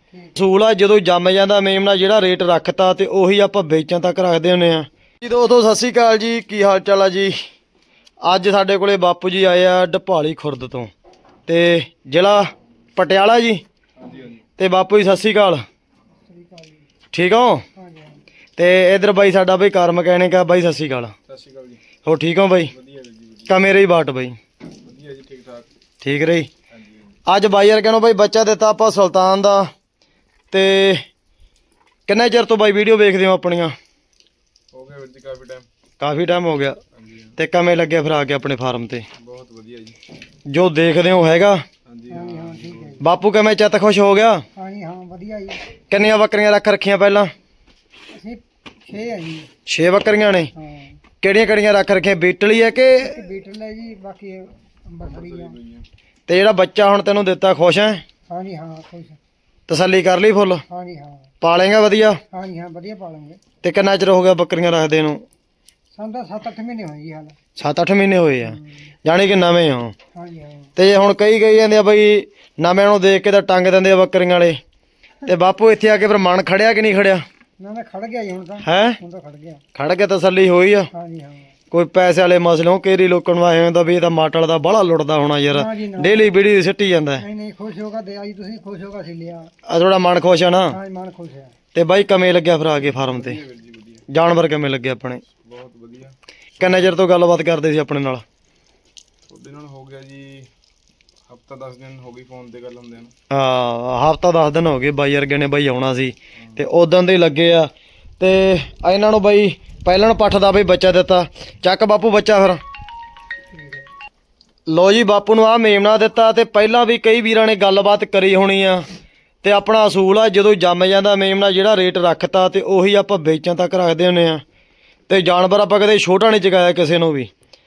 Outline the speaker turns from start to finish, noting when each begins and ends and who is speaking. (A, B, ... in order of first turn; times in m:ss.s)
0:00.4-0:07.4 A
0:08.2-0:10.9 A
0:11.5-0:13.6 A
0:14.0-0:14.4 B
0:14.6-0:15.6 A
0:16.3-0:16.9 C
0:17.1-0:17.6 A
0:17.7-0:18.2 C
0:18.6-0:21.1 A
0:21.3-0:21.8 B
0:22.0-0:22.7 A
0:22.7-0:23.5 B
0:23.5-0:24.4 A
0:24.8-0:25.7 B
0:26.0-0:26.5 A
0:27.3-0:29.7 A
0:30.5-0:31.0 A
0:32.1-0:33.7 A
0:34.7-0:35.7 B
0:36.0-0:36.8 A
0:37.0-0:37.3 B
0:37.4-0:39.1 A
0:39.2-0:40.0 B
0:40.5-0:41.6 A
0:41.8-0:43.0 B
0:42.1-0:43.0 C
0:43.0-0:44.4 A
0:44.6-0:45.6 C
0:45.9-0:47.3 A
0:48.1-0:49.5 C
0:49.6-0:50.5 A
0:50.5-0:51.0 C
0:51.2-0:53.2 A
0:53.0-0:55.6 C
0:55.0-0:55.9 B
0:56.3-0:58.0 A
0:58.3-0:59.2 C
0:59.7-1:00.6 A
1:00.7-1:01.3 C
1:01.4-1:02.2 A
1:02.3-1:03.4 C
1:03.6-1:05.2 A
1:05.9-1:07.4 C
1:07.6-1:09.9 A
1:08.4-1:08.8 C
1:10.1-1:10.7 C
1:10.8-1:14.6 A
1:15.2-1:17.2 A
1:17.6-1:19.6 C
1:18.6-1:19.0 A
1:19.7-1:20.9 A
1:20.9-1:21.5 C
1:21.7-1:27.2 A
1:25.5-1:26.3 C
1:27.2-1:29.5 C
1:29.6-1:30.8 A
1:30.7-1:31.5 C
1:31.7-1:33.4 A
1:33.0-1:34.0 B
1:34.1-1:35.2 A
1:35.4-1:36.2 B
1:36.6-1:38.2 A
1:39.3-1:40.5 B
1:41.3-1:43.1 B
1:43.3-1:52.6 A
1:53.5-1:53.9 C
1:54.7-1:58.8 A
1:59.4-2:04.4 A
2:05.1-2:07.3 A